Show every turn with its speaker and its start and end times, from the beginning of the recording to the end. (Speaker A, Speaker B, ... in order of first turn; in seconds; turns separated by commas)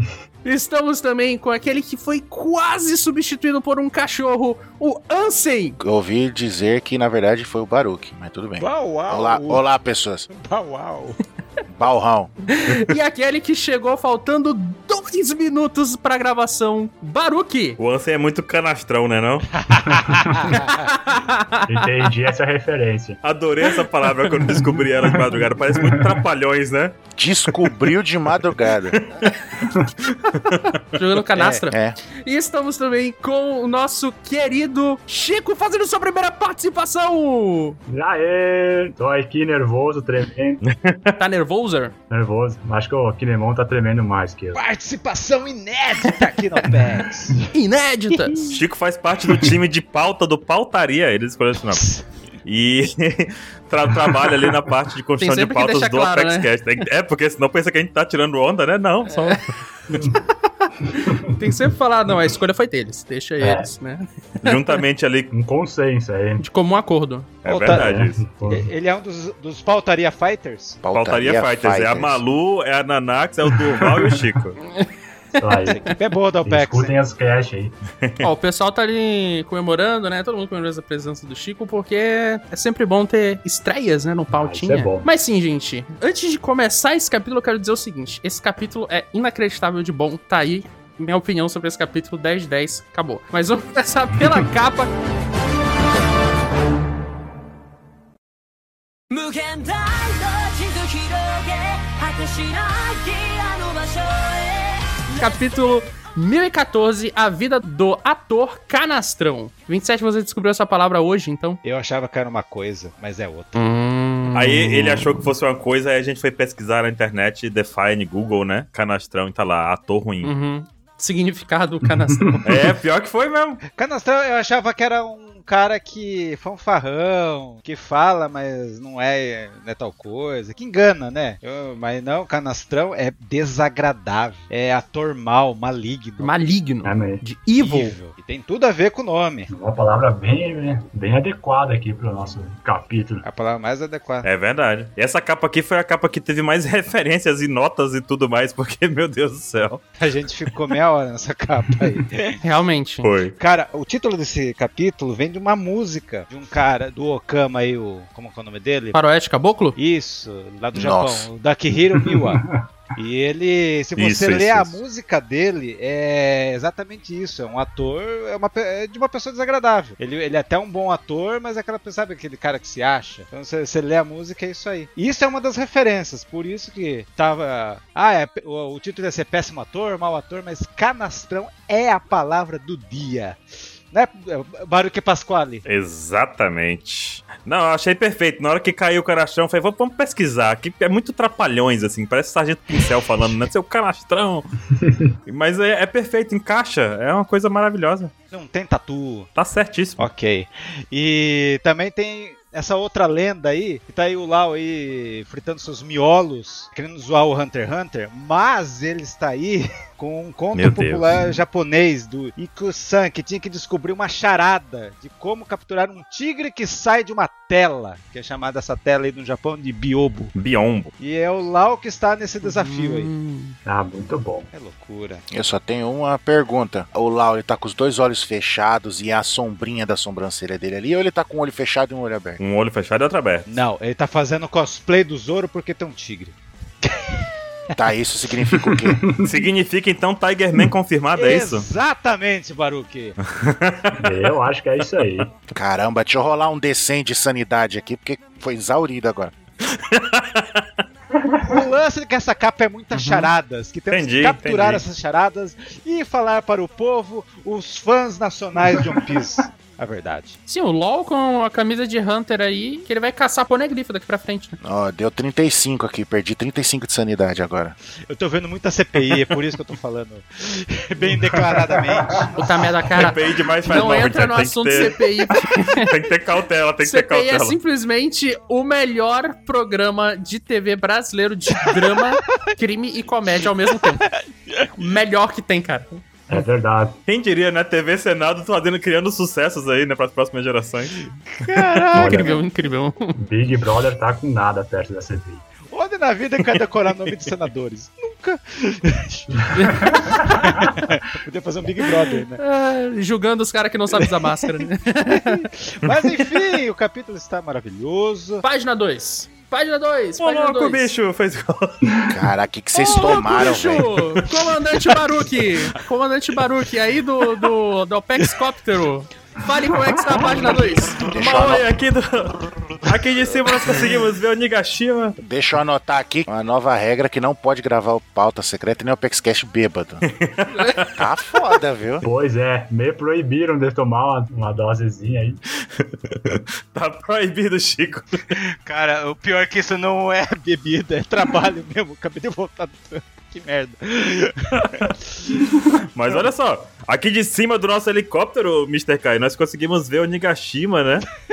Speaker A: 0.5-5.8, Speaker B: 5.8-10.3, Speaker C: 8.6-9.6, Speaker C: 10.3-11.2, Speaker B: 11.7-12.3, Speaker A: 12.5-17.8, Speaker D: 17.8-19.5, Speaker C: 19.6-20.8, Speaker E: 19.8-20.6, Speaker A: 20.5-21.9, Speaker E: 21.7-23.2, Speaker D: 23.2-27.0, Speaker A: 24.4-24.7, Speaker E: 25.7-26.2, Speaker B: 27.1-29.0, Speaker D: 28.9-29.4, Speaker D: 30.4-30.8, Speaker A: 30.5-37.8, Speaker C: 31.4-31.6, Speaker B: 31.7-32.0, Speaker E: 37.9-40.6, Speaker D: 40.6-41.1, Speaker A: 41.2-41.9, Speaker E: 42.1-44.6, Speaker C: 44.5-47.5, Speaker E: 46.7-47.4, Speaker A: 47.5-48.6, Speaker D: 48.5-51.9, Speaker C: 51.7-52.0, Speaker D: 52.5-59.4, Speaker A: 55.2-56.5, Speaker A: 59.1-60.1, Speaker E: 60.9-61.3, Speaker A: 61.3-64.8, Speaker E: 63.4-63.7, Speaker D: 64.4-65.3, Speaker E: 65.3-66.4, Speaker A: 66.4-67.3, Speaker D: 67.4-68.2, Speaker C: 67.5-70.8, Speaker E: 67.6-68.7, Speaker B: 70.8-72.2, Speaker D: 70.9-74.6, Speaker E: 75.4-75.8, Speaker C: 75.7-77.0, Speaker E: 76.4-77.8, Speaker A: 78.2-94.9, Speaker E: 84.3-85.1, Speaker F: 99.1-105.2, Speaker A: 105.1-111.6, Speaker C: 111.6-113.7, Speaker A: 113.5-115.3, Speaker D: 114.3-120.3, Speaker A: 120.2-122.7, Speaker D: 122.5-123.6, Speaker C: 123.7-136.3, Speaker A: 136.2-137.9, Speaker E: 136.8-137.2, Speaker C: 137.6-139.5, Speaker E: 139.5-143.2, Speaker C: 143.2-144.3, Speaker D: 144.2-149.8, Speaker C: 150.0-152.4, Speaker A: 152.4-153.1, Speaker D: 153.0-153.3, Speaker C: 153.4-159.0, Speaker A: 158.9-159.8, Speaker C: 159.8-162.4, Speaker B: 160.7-161.3, Speaker E: 162.2-162.6, Speaker C: 163.0-185.6, Speaker D: 164.0-164.8, Speaker D: 185.7-194.5, Speaker D: 195.3-198.1, Speaker C: 198.3-199.3, Speaker D: 199.4-200.1, Speaker C: 200.0-220.3, Speaker D: 210.5-211.1, Speaker D: 220.3-220.9, Speaker C: 221.0-223.1, Speaker A: 222.4-223.6, Speaker E: 223.7-224.5, Speaker C: 224.5-225.2, Speaker B: 225.3-232.4, Speaker D: 232.4-233.6, Speaker C: 233.5-237.3, Speaker B: 237.8-239.1, Speaker E: 238.6-239.4, Speaker D: 239.2-241.7, Speaker C: 241.1-243.2, Speaker D: 243.2-244.3, Speaker E: 244.0-245.3, Speaker B: 245.5-249.3, Speaker D: 249.6-250.7, Speaker E: 251.2-251.6, Speaker C: 251.4-260.4, Speaker A: 252.9-253.3, Speaker D: 253.9-254.8, Speaker E: 258.8-259.0, Speaker A: 260.5-264.6, Speaker B: 264.6-267.8, Speaker C: 268.1-272.4, Speaker E: 271.7-272.3, Speaker A: 272.4-275.9, Speaker D: 272.9-277.6, Speaker A: 276.8-284.1, Speaker C: 281.6-282.0, Speaker C: 283.6-284.7, Speaker A: 284.8-286.0, Speaker E: 286.3-287.0, Speaker D: 287.1-291.1, Speaker C: 291.3-292.5, Speaker A: 291.9-293.1, Speaker E: 291.9-292.4, Speaker E: 293.2-295.4, Speaker C: 295.7-302.4, Speaker E: 299.3-300.9, Speaker A: 299.5-300.3, Speaker A: 302.4-305.5, Speaker C: 305.1-308.4, Speaker A: 308.4-310.9, Speaker D: 310.2-312.1, Speaker B: 312.1-314.0, Speaker A: 312.8-321.6, Speaker B: 321.1-321.7, Speaker D: 321.1-325.2, Speaker B: 325.2-330.0, Speaker D: 330.1-330.9, Speaker A: 330.5-330.9, Speaker B: 331.0-332.0, Speaker E: 332.0-335.4, Speaker D: 335.8-338.4, Speaker C: 338.3-345.3, Speaker D: 344.6-344.9, Speaker D: 345.9-351.1